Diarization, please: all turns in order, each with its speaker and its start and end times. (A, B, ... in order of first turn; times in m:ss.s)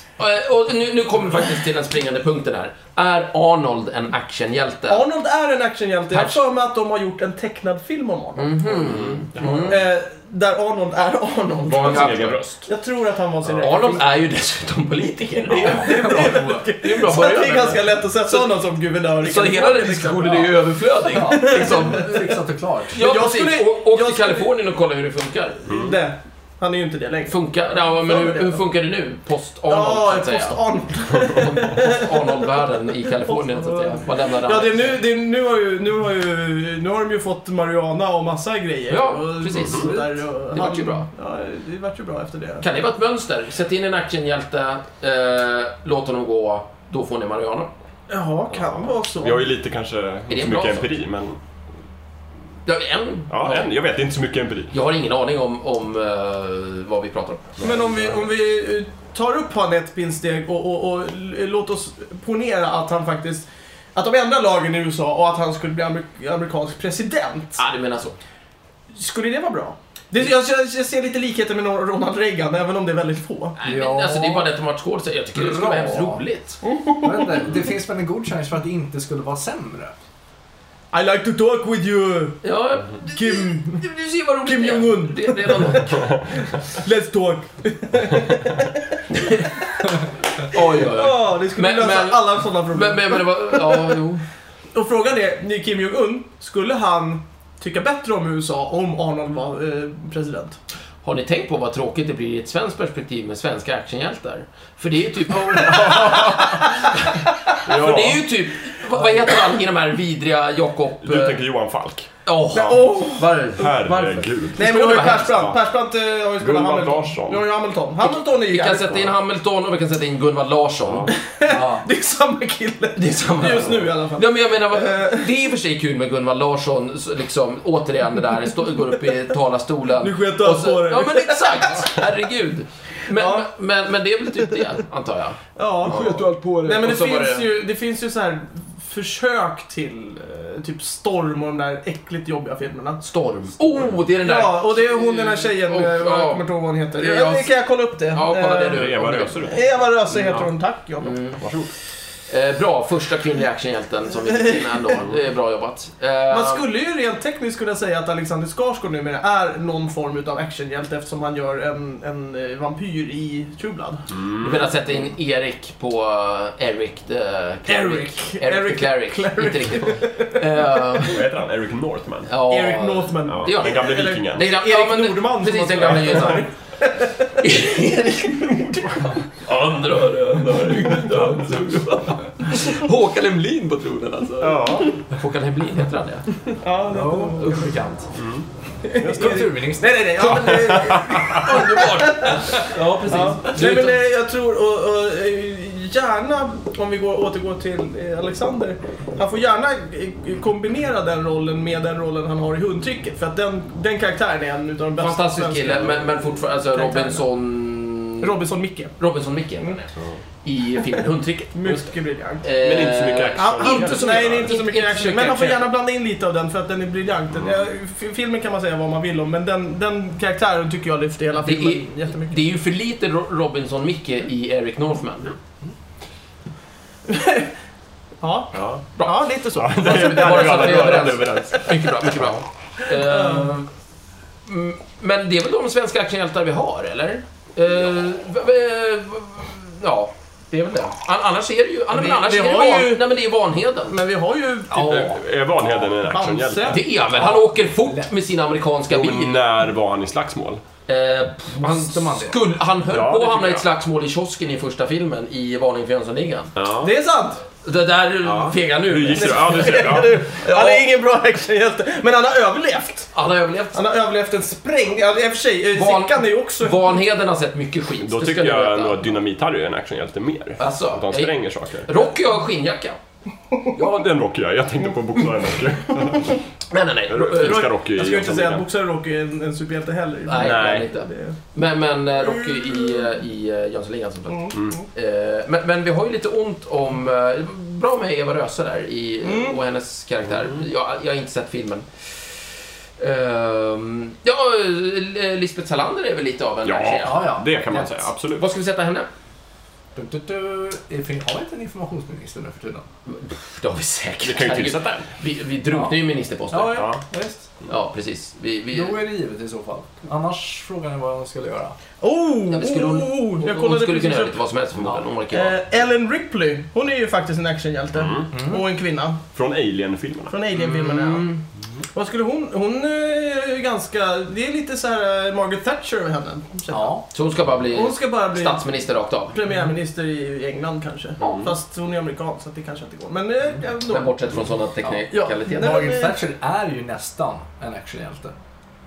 0:00.2-0:05.0 A
0:04.9-0:08.8 B
0:06.1-0:06.4 A
0:08.4-0:09.8 A
0:08.7-0:09.8 C
0:09.6-0:14.1 B
0:11.7-0:12.7 A
0:11.7-0:12.4 C
0:13.6-0:18.6 A
0:15.5-0:20.6 B
0:15.6-0:16.7 D
0:19.2-0:22.2 A
0:21.0-0:23.0 D
0:21.2-0:22.1 B
0:22.9-0:25.6 A
0:22.9-0:24.5 B
0:25.6-0:26.0 C
0:25.7-0:28.6 B
0:27.3-0:30.6 A
0:29.7-0:32.2 B
0:31.2-0:35.0 A
0:33.2-0:42.6 B
0:38.9-0:41.1 A
0:39.5-0:39.9 C
0:39.8-0:40.1 D
0:42.6-0:47.7 A
0:48.1-0:49.5 B
0:48.6-0:51.4 C
0:50.3-0:50.9 A
0:52.6-0:53.7 A
0:53.3-0:54.7 C
0:54.7-0:57.8 A
0:57.6-1:07.6 B
1:07.6-1:08.2 A
1:08.9-1:13.6 B
1:13.6-1:16.6 A
1:13.6-1:14.5 D
1:15.4-1:16.2 D
1:16.6-1:17.6 B
1:17.0-1:19.9 D
1:20.9-1:22.4 B
1:22.4-1:26.0 A
1:23.0-1:23.9 B
1:24.4-1:29.0 B
1:29.1-1:29.5 A
1:30.4-1:34.0 B
1:30.4-1:34.2 A
1:34.7-1:40.6 B
1:41.0-1:47.1 A
1:45.5-1:46.6 B
1:45.6-1:46.6 C
1:47.6-1:48.3 C
1:47.6-1:51.4 A
1:51.0-1:52.9 C
1:52.2-1:55.4 A
1:52.5-1:53.7 B
1:53.5-1:55.6 C
1:54.5-1:59.1 B
1:56.4-1:57.4 C
1:58.0-2:01.1 A
2:00.8-2:01.1 C
2:01.1-2:05.3 B
2:01.5-2:01.8 D
2:03.0-2:17.5 A
2:10.0-2:11.9 B
2:13.1-2:13.5 B
2:15.6-2:23.0 B
2:23.0-2:29.6 A
2:24.2-2:28.9 B
2:28.7-2:30.5 C
2:29.4-2:31.2 B
2:31.0-2:31.4 A
2:31.4-2:31.7 C
2:32.3-2:36.6 A
2:34.2-2:35.0 B
2:36.3-2:44.0 B
2:44.1-2:44.7 C
2:44.4-2:51.2 A
2:47.6-2:50.8 B
2:51.0-2:52.3 C
2:52.3-2:56.5 A
2:52.4-2:57.2 B
2:53.2-2:54.4 C
2:57.4-3:06.5 A
2:58.5-2:59.1 B
3:04.4-3:04.9 C
3:06.6-3:07.7 B
3:06.9-3:08.1 D
3:08.1-3:08.4 C
3:08.8-3:27.3 B
3:09.0-3:09.5 C
3:09.0-3:10.4 D
3:10.3-3:11.5 C
3:11.3-3:14.0 A
3:25.0-3:28.4 A
3:28.2-3:29.0 B
3:29.0-3:31.6 A
3:31.5-3:32.5 B
3:32.4-3:35.6 A
3:32.5-3:34.5 C
3:33.3-3:42.4 B
3:41.4-3:45.3 A
3:47.1-3:47.5 B
3:48.2-3:51.4 B
3:48.5-3:48.8 C
3:49.6-3:52.2 C
3:49.7-3:53.7 A
3:52.9-3:53.5 B
3:54.4-4:04.0 A
4:01.9-4:03.0 B
4:03.9-4:05.1 B
4:04.7-4:05.1 A
4:04.8-4:06.8 C
4:05.6-4:06.8 B
4:06.6-4:09.4 A
4:07.1-4:08.1 D
4:08.9-4:10.6 C
4:10.9-4:16.5 A
4:11.6-4:12.4 D
4:12.9-4:13.6 C
4:16.6-4:16.9 C
4:16.8-4:17.4 B
4:17.6-4:19.8 A
4:18.2-4:20.2 C
4:19.1-4:23.1 B
4:20.4-4:20.8 A
4:23.1-4:23.8 A
4:23.7-4:27.0 B
4:25.7-4:29.0 A
4:28.0-4:31.9 C
4:30.6-4:33.0 A
4:33.7-4:36.4 C
4:36.7-4:37.7 A
4:37.1-4:38.6 C
4:37.3-4:41.4 B
4:40.2-4:51.8 A
4:40.4-4:40.9 C
4:42.2-4:43.1 B
4:44.3-4:44.8 B
4:49.2-4:49.6 B
4:53.0-4:57.3 A
4:56.6-4:58.4 C
4:57.0-4:57.9 D
4:58.4-4:59.1 A
4:59.9-5:02.8 D
5:03.0-5:06.9 A
5:04.2-5:05.1 C
5:05.7-5:06.0 D
5:06.5-5:07.5 D
5:06.7-5:07.0 C
5:07.7-5:09.0 A
5:08.7-5:11.8 D
5:12.0-5:14.4 B
5:12.5-5:15.6 A
5:15.3-5:19.2 B
5:17.9-5:18.3 C
5:18.3-5:18.6 D
5:19.3-5:20.3 C
5:20.3-5:21.3 B
5:20.5-5:21.4 A
5:21.9-5:27.0 B
5:26.7-5:27.0 D
5:27.1-5:29.4 A
5:27.7-5:34.4 B
5:31.2-5:31.5 A
5:33.9-5:35.8 A
5:34.8-5:38.3 D
5:35.1-5:36.2 B